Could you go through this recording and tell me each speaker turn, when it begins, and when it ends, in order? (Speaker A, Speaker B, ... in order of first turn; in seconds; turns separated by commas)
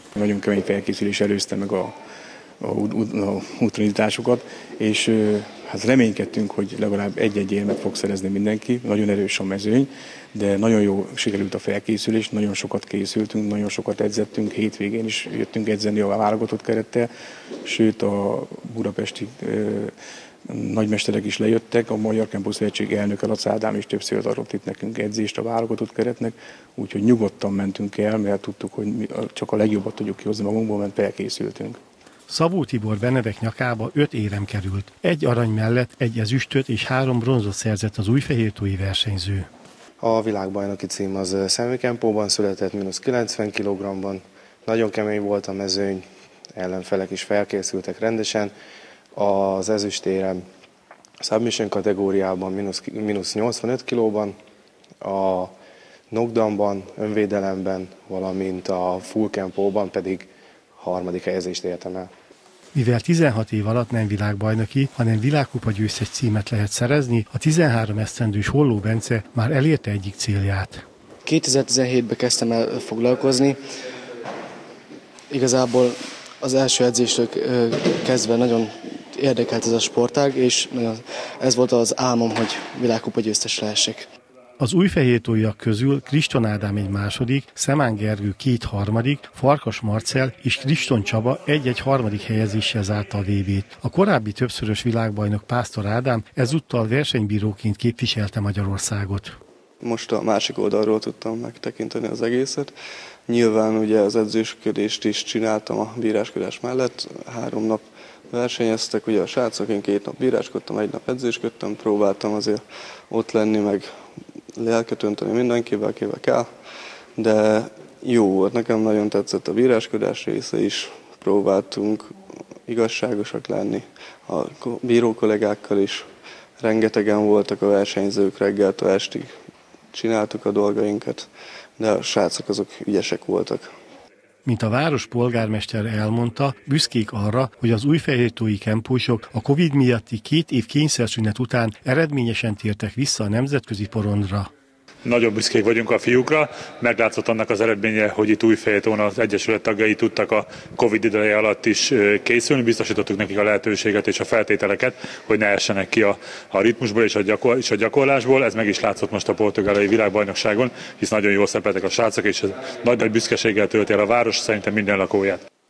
Speaker A: 0.1-1.9, Speaker A: 2.6-17.1, Speaker A: 17.6-19.9, Speaker A: 20.5-31.8, Speaker B: 32.3-39.5, Speaker C: 40.0-46.0, Speaker C: 46.5-48.5, Speaker C: 49.1-50.4, Speaker C: 51.2-54.3, Speaker C: 55.0-55.5, Speaker C: 56.1-62.1, Speaker B: 62.7-70.8, Speaker D: 71.2-73.6, Speaker D: 75.3-84.1, Speaker B: 84.6-99.3, Speaker E: 99.8-102.7, Speaker E: 103.3-113.9, Speaker E: 114.6-116.5, Speaker E: 117.2-122.1, Speaker E: 122.7-126.1, Speaker E: 126.6-129.3, Speaker E: 129.9-133.7, Speaker B: 134.4-144.5, Speaker F: 145.0-165.4